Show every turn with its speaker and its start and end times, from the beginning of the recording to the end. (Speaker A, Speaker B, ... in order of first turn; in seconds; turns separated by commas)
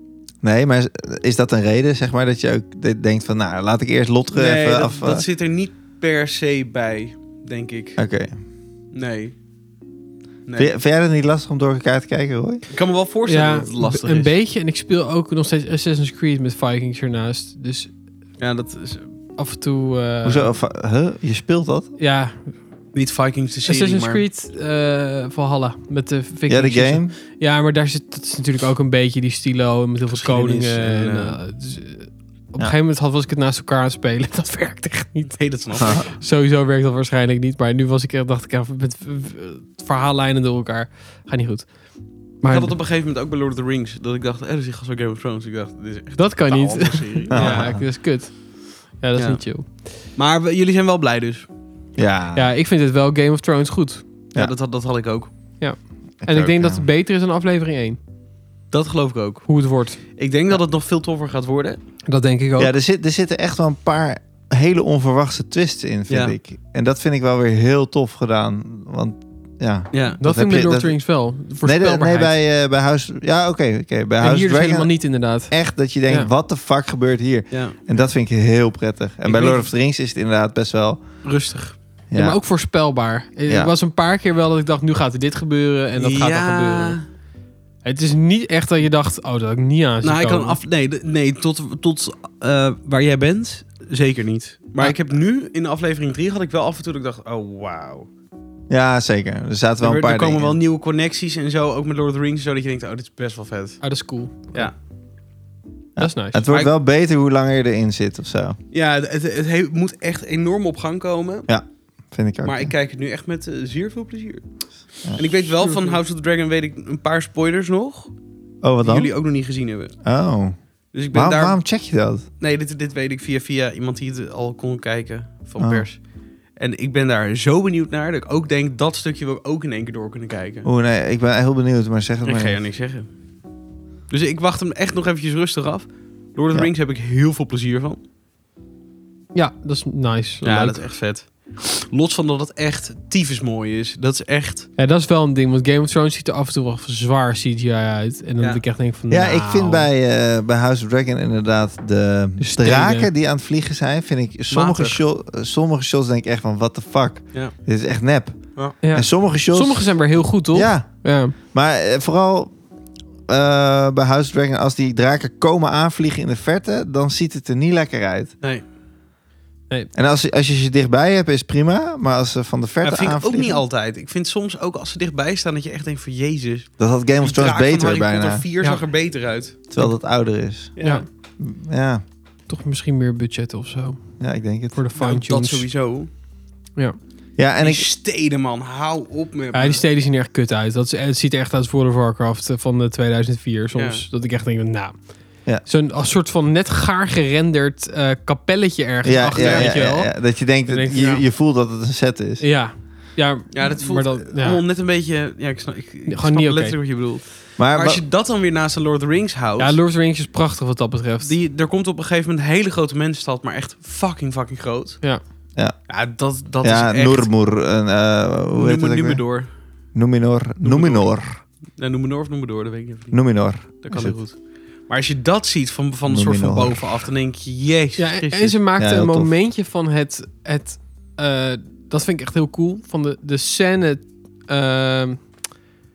Speaker A: 0.4-5.2, Speaker B: 4.3-8.0, Speaker A: 8.0-8.3, Speaker B: 8.9-9.3, Speaker A: 10.6-12.6, Speaker B: 12.7-14.3, Speaker C: 13.3-17.9, Speaker B: 18.4-19.1, Speaker C: 19.4-20.5, Speaker A: 20.2-21.9, Speaker C: 22.0-22.5, Speaker B: 22.9-24.2, Speaker C: 23.6-41.7, Speaker A: 26.5-27.1, Speaker B: 30.1-31.4, Speaker B: 35.2-36.0, Speaker A: 35.8-36.1, Speaker C: 42.4-42.7, Speaker B: 42.5-47.7, Speaker C: 46.2-48.4, Speaker A: 47.3-47.8, Speaker C: 49.0-49.7, Speaker B: 49.2-49.4, Speaker B: 50.1-51.5, Speaker A: 52.0-52.5, Speaker C: 52.4-54.0, Speaker B: 54.4-55.3, Speaker C: 55.6-58.0, Speaker A: 56.2-56.9, Speaker B: 58.7-61.8, Speaker C: 59.5-60.0, Speaker C: 62.1-62.7, Speaker A: 62.6-71.0, Speaker B: 66.1-66.3, Speaker B: 69.9-70.2, Speaker C: 70.2-72.3, Speaker A: 71.6-74.9, Speaker C: 74.2-75.5, Speaker A: 75.5-81.0, Speaker B: 77.5-77.8, Speaker B: 79.2-79.7, Speaker B: 81.2-81.8, Speaker A: 82.1-82.4, Speaker C: 82.2-87.0, Speaker B: 86.0-87.0, Speaker C: 87.8-90.6, Speaker B: 90.0-98.1, Speaker A: 98.7-100.6, Speaker B: 99.8-103.8, Speaker C: 103.8-104.7, Speaker A: 106.0-108.6, Speaker C: 106.0-106.4, Speaker B: 106.5-106.7, Speaker B: 108.7-111.5, Speaker A: 111.5-112.7, Speaker B: 112.4-114.5, Speaker B: 115.1-118.1, Speaker C: 115.6-116.0, Speaker A: 118.6-119.1, Speaker B: 118.8-120.0, Speaker A: 120.0-120.6, Speaker B: 120.9-121.6, Speaker A: 121.1-122.2, Speaker B: 122.4-126.0, Speaker A: 125.6-125.9, Speaker B: 126.6-130.7, Speaker A: 130.7-132.6, Speaker B: 132.2-133.1, Speaker B: 134.1-138.0, Speaker C: 139.3-140.8, Speaker B: 140.4-144.7, Speaker C: 144.8-149.9, Speaker A: 149.1-159.8, Speaker C: 152.4-153.1, Speaker B: 154.5-155.0, Speaker C: 158.8-161.3, Speaker A: 160.5-162.5, Speaker A: 163.3-168.3, Speaker A: 169.9-173.6, Speaker B: 172.8-179.6, Speaker A: 176.8-178.4, Speaker A: 179.7-180.7, Speaker B: 180.8-181.1, Speaker C: 180.8-181.1, Speaker A: 181.4-182.0, Speaker C: 182.5-184.0, Speaker A: 184.2-184.8, Speaker C: 184.7-185.7, Speaker B: 184.9-186.1, Speaker A: 187.4-187.9, Speaker B: 187.6-189.8, Speaker C: 189.5-195.0, Speaker B: 193.8-194.1, Speaker C: 195.7-201.2, Speaker A: 199.0-202.4, Speaker B: 199.4-199.7, Speaker C: 202.4-204.6, Speaker B: 203.5-209.8, Speaker C: 206.1-206.8, Speaker A: 207.6-208.0, Speaker C: 209.6-211.3, Speaker B: 211.2-215.0, Speaker B: 215.9-217.3, Speaker A: 216.6-219.2, Speaker B: 218.5-219.5, Speaker A: 219.9-221.4, Speaker B: 220.6-221.1, Speaker B: 221.8-228.6, Speaker A: 223.1-224.2, Speaker A: 226.1-226.9, Speaker C: 228.0-235.2, Speaker A: 228.8-229.3